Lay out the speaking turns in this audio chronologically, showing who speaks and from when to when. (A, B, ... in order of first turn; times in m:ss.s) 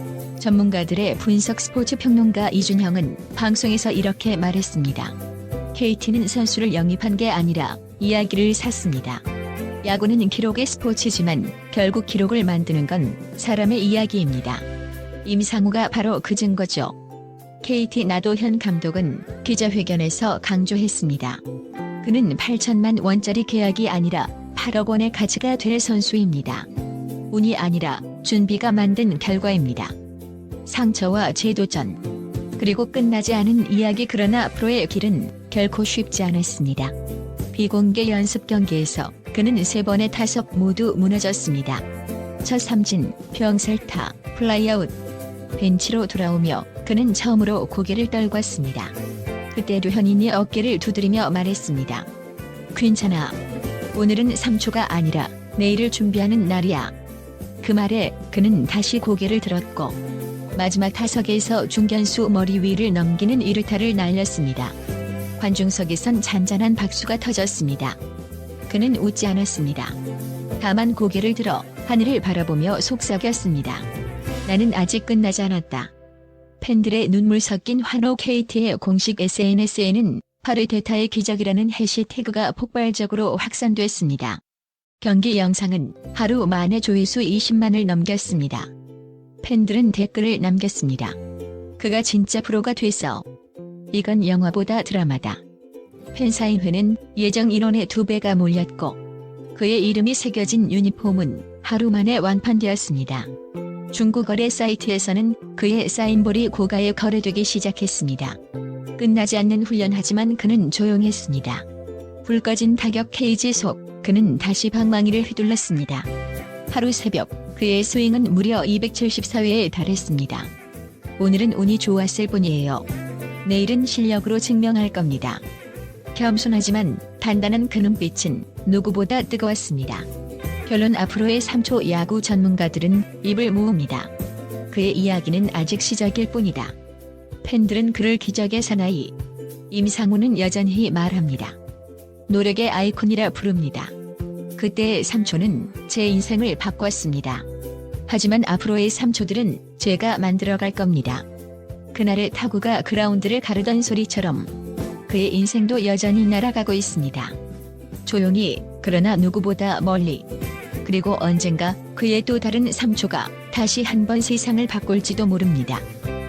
0:00.4-0:05.2 A
0:05.7-0:09.2 A
0:09.8-0:14.6 A
0:15.2-0:17.0 A
0:17.6-0:21.4 A
0:22.0-0:26.7 A
0:27.3-0:29.9 A
0:30.7-0:32.0 A
0:32.6-0:36.9 A
0:37.5-0:41.8 A
0:42.4-0:44.9 A
0:45.6-0:48.9 A
0:49.5-0:52.1 A
0:52.7-0:53.4 A
0:53.9-0:56.9 A
0:57.6-1:00.0 A
1:00.6-1:04.8 A
1:05.4-1:08.0 A
1:08.7-1:10.0 A
1:10.6-1:13.9 A
1:14.4-1:15.9 A
1:16.6-1:24.4 A
1:25.0-1:28.7 A
1:29.4-1:31.2 A
1:31.8-1:33.2 A
1:33.9-1:35.4 A
1:36.1-1:39.0 A
1:39.5-1:43.3 A
1:43.9-1:48.4 A
1:49.0-1:51.6 A
1:52.2-1:56.1 A
1:56.7-2:00.5 A
2:01.2-2:02.8 A
2:03.4-2:05.4 A
2:06.1-2:10.1 A
2:10.7-2:14.1 A
2:14.7-2:16.7 A
2:17.4-2:19.1 A
2:19.7-2:21.6 A
2:22.3-2:23.9 A
2:24.6-2:27.4 A
2:28.1-2:31.2 A
2:31.9-2:34.5 A
2:35.1-2:37.4 A
2:38.0-2:40.2 A
2:40.8-2:45.8 A